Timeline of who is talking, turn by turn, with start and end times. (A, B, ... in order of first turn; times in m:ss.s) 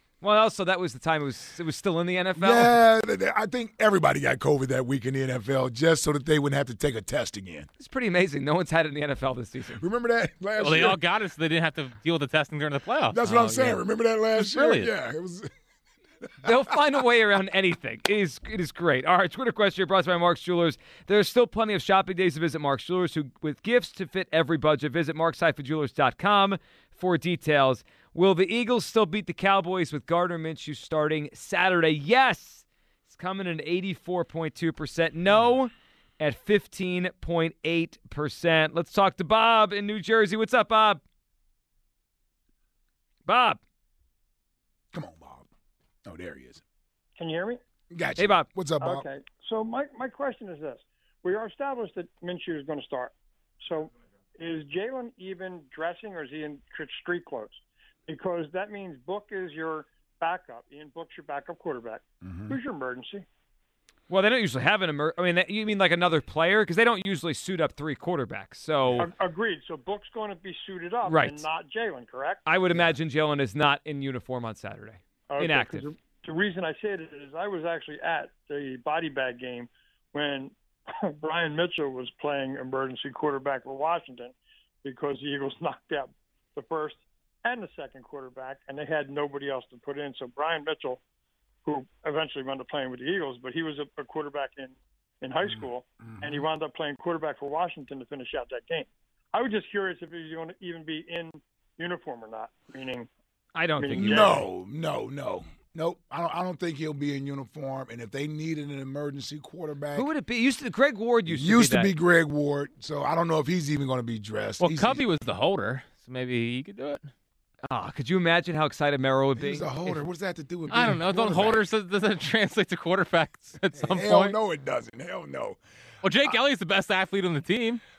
0:00.2-0:02.8 A
0:02.4-0:07.7 B
0:07.8-0:09.8 A
0:09.8-0:11.0 B
0:10.6-0:13.8 C
0:13.1-0:15.5 B
0:14.4-0:14.9 C
0:16.4-0:41.0 A
0:43.3-0:43.6 A
0:44.9-0:45.5 B
0:46.0-0:46.6 B
0:47.2-0:47.6 D
0:47.9-0:49.1 B
0:48.2-0:48.5 A
0:48.8-1:03.3 D
1:02.2-1:02.6 B
1:04.1-1:09.1 A
1:09.0-1:12.4 D
1:11.0-1:11.5 A
1:12.5-1:15.9 A
1:15.3-1:31.0 D
1:31.6-1:43.1 D
1:35.5-1:36.4 B
1:43.6-1:44.4 A
1:43.8-1:44.4 D
1:43.9-1:50.1 B
1:50.0-1:51.9 A
1:51.3-1:55.0 B
1:54.6-1:57.1 C
1:57.7-2:00.0 A
1:59.4-2:01.6 B
2:00.7-2:04.4 C
2:03.8-2:05.6 B
2:06.0-2:07.8 C